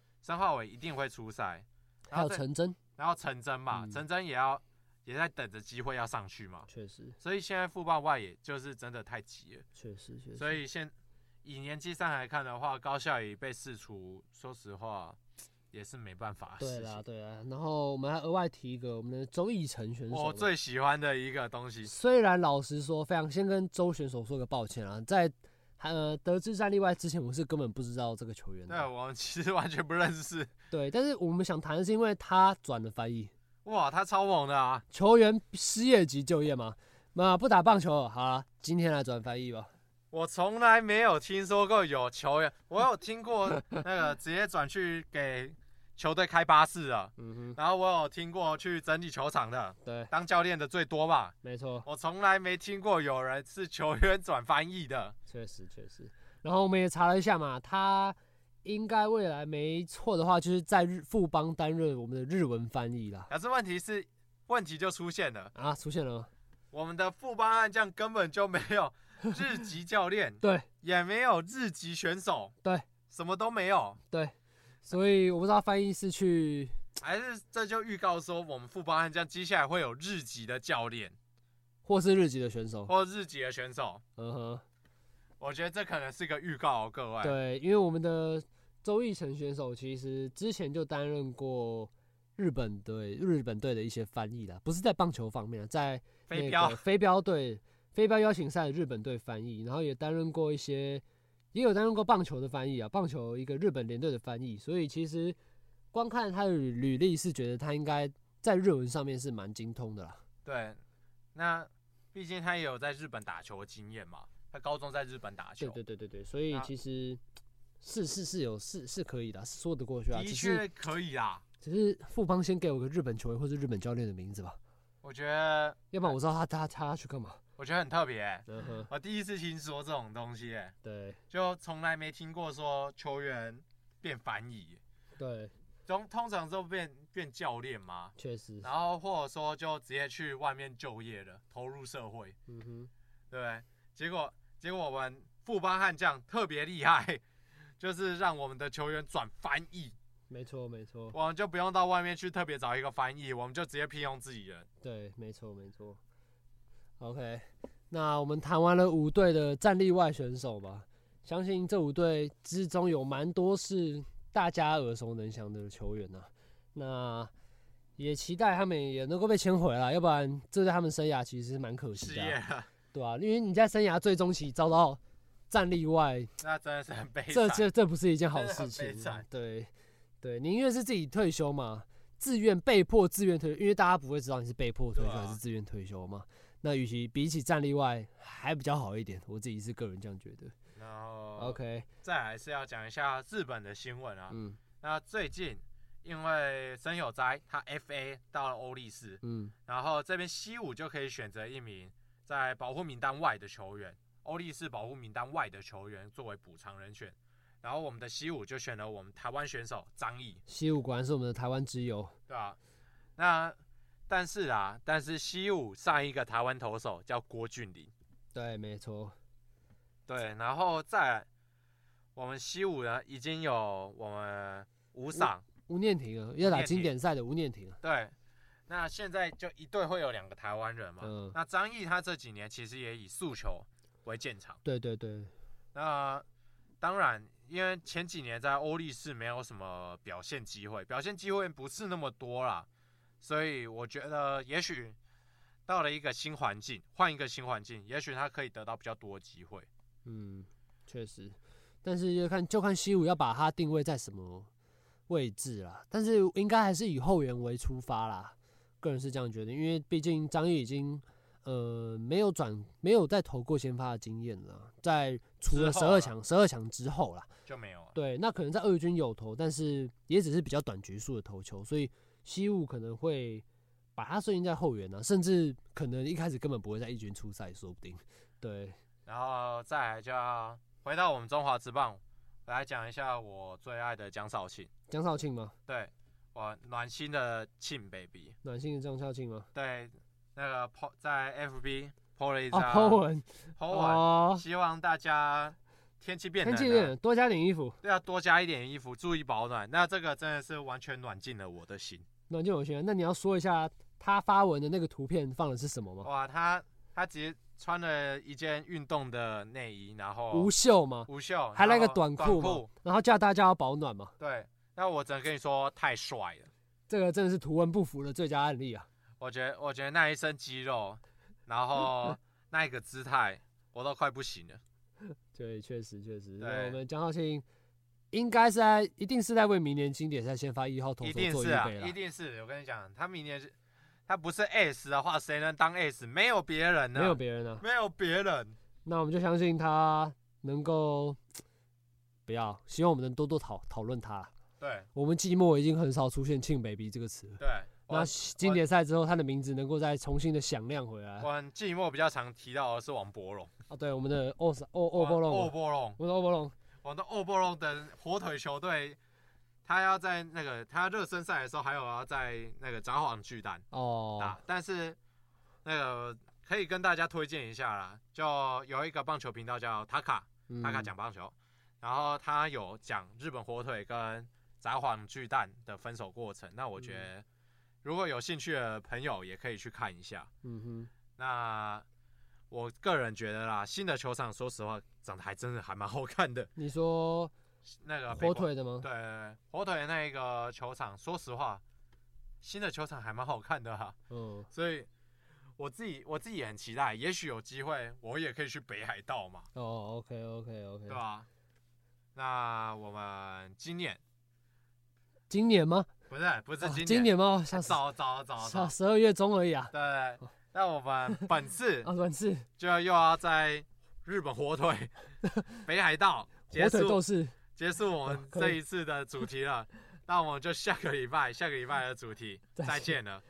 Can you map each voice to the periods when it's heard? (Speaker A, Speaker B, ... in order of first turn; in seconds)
Speaker A: 0.2-2.4, 3.0-6.7, 7.2-9.7, 10.4-10.9, 11.4-15.2, 15.7-17.0, 20.1-21.9, 28.7-30.5, 33.6-34.9, 40.1-51.3, 51.9-55.2, 63.3-65.5, 66.7-72.5, 73.1-74.0, 77.0-81.2, 82.9-84.0, 85.4-87.4, 96.3-96.8, 110.5-110.8, 111.3-115.8, 120.1-121.4, 125.0-126.1, 127.6-130.8, 131.3-134.8, 135.9-142.4, 143.3-147.2, 147.8-149.9, 151.1-154.7, 172.0-172.7, 176.4-177.7, 178.3-179.2, 184.9-185.4, 190.8-210.4, 212.3-212.6, 213.2-213.6, 214.1-217.9, 220.1-221.3, 222.2-225.4, 226.4-226.9, 227.8-228.1, 228.7-234.6, 235.8-236.2, 236.8-242.7, 243.2-245.0, 245.7-249.7, 265.5-266.1, 267.5-267.9, 279.1-284.7, 285.7-288.4, 289.5-293.0, 293.6-296.9, 297.8-302.1, 306.0-310.5, 311.1-312.7, 314.2-316.5, 319.2-324.6, 326.4-326.8, 331.0-333.5, 334.1-338.6, 344.6-344.9, 347.4-348.6, 351.2-353.5, 355.0-356.0, 356.8-359.0, 359.6-363.6, 364.2-365.0, 365.6-377.2, 377.8-380.3, 381.2-381.9, 382.5-386.5, 387.7-391.6, 392.4-394.0, 394.5-394.9, 395.6-399.5, 400.9-401.3, 402.1-404.0, 406.1-408.7, 409.7-411.9, 412.6-414.9, 415.6-417.0, 417.6-423.2
Speaker B: 2.1-2.8, 3.7-4.0, 6.7-7.2, 9.8-10.6, 16.6-20.5, 21.8-28.9, 30.7-33.3, 34.9-39.7, 47.2-47.6, 49.8-50.1, 51.4-51.9, 55.3-63.3, 65.5-66.3, 70.4-70.7, 74.9-76.8, 81.8-82.9, 84.2-84.6, 87.2-105.4, 105.9-110.2, 115.6-117.2, 117.8-120.6, 121.6-124.6, 125.9-127.4, 128.5-128.9, 130.8-131.2, 135.2-135.5, 138.2-138.7, 142.5-142.9, 150.3-151.2, 154.8-156.0, 157.0-167.3, 168.0-172.4, 172.9-176.3, 177.3-179.7, 180.2-190.5, 191.4-191.9, 194.3-194.6, 199.2-199.5, 210.5-212.2, 218.3-219.2, 225.1-227.8, 231.0-231.4, 234.6-235.3, 250.1-254.5, 255.1-267.3, 267.9-273.4, 274.0-278.8, 284.9-285.6, 288.4-289.5, 292.5-294.4, 296.4-297.8, 302.3-306.1, 310.3-314.1, 316.9-318.9, 325.3-327.4, 328.1-331.9, 336.9-337.6, 338.9-341.2, 342.3-344.3, 344.9-351.3, 353.7-356.6, 363.7-364.4, 370.5-370.9, 380.4-380.9, 386.6-387.3, 388.1-388.9, 394.1-394.5, 399.6-401.0, 405.3-405.9, 406.6-407.8, 408.4-409.7, 411.8-412.5, 415.2-415.6, 416.5-417.4, 418.1-418.6, 422.6-423.0